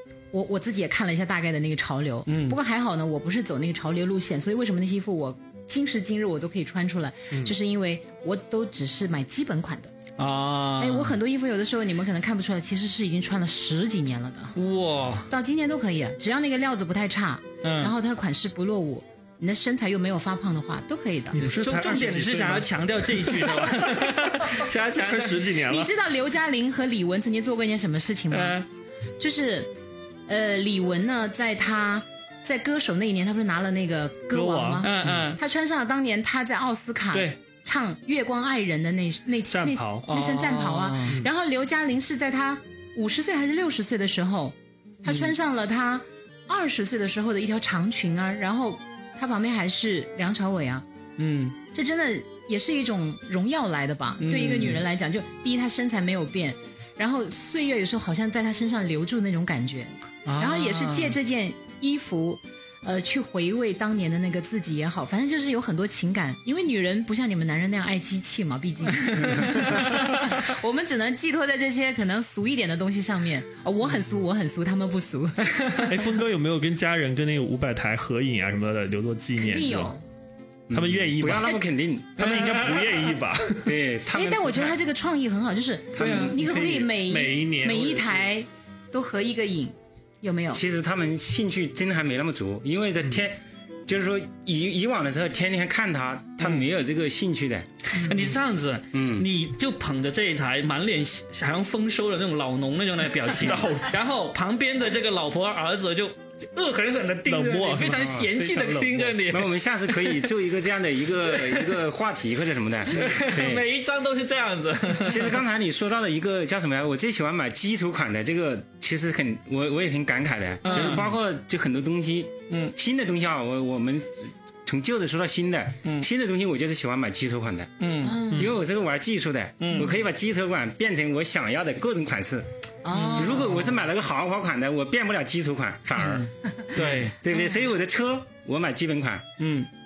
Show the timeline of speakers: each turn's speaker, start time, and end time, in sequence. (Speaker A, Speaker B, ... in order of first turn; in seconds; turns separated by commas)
Speaker A: 0.3-9.9, Speaker B: 2.3-2.6, Speaker B: 10.2-11.2, Speaker A: 10.8-14.6, Speaker B: 14.6-15.3, Speaker A: 15.3-21.5, Speaker B: 17.6-17.9, Speaker C: 21.3-25.9, Speaker B: 21.5-25.5, Speaker A: 25.7-28.6, Speaker B: 28.3-28.6, Speaker A: 29.2-29.7, Speaker A: 30.3-50.8, Speaker C: 34.3-35.2, Speaker B: 34.8-35.4, Speaker C: 39.5-40.1, Speaker B: 40.1-41.2, Speaker B: 45.1-45.3, Speaker B: 51.2-51.5, Speaker A: 51.7-75.6, Speaker B: 54.2-54.8, Speaker B: 60.2-61.1, Speaker B: 69.1-69.7, Speaker B: 75.6-75.9, Speaker C: 75.8-79.9, Speaker A: 79.4-80.0, Speaker D: 80.7-82.6, Speaker C: 80.7-81.6, Speaker C: 82.2-83.8, Speaker B: 82.2-82.9, Speaker D: 83.6-84.8, Speaker A: 84.1-90.6, Speaker D: 85.9-86.4, Speaker C: 86.0-88.2, Speaker D: 90.5-97.7, Speaker B: 97.9-110.3, Speaker D: 98.9-99.2, Speaker C: 103.3-104.0, Speaker C: 107.2-109.2, Speaker D: 108.0-108.3, Speaker D: 109.3-113.6, Speaker B: 111.2-111.8, Speaker B: 112.9-115.4, Speaker D: 115.0-127.7, Speaker B: 120.6-121.1, Speaker B: 122.5-122.7, Speaker B: 127.8-128.2, Speaker A: 128.0-128.5, Speaker D: 128.3-132.5, Speaker B: 129.6-129.9, Speaker A: 132.8-133.5, Speaker B: 132.9-133.5, Speaker D: 133.1-136.2, Speaker A: 136.1-136.7, Speaker B: 136.7-137.1, Speaker D: 136.8-139.3, Speaker A: 137.3-137.6, Speaker B: 139.4-139.7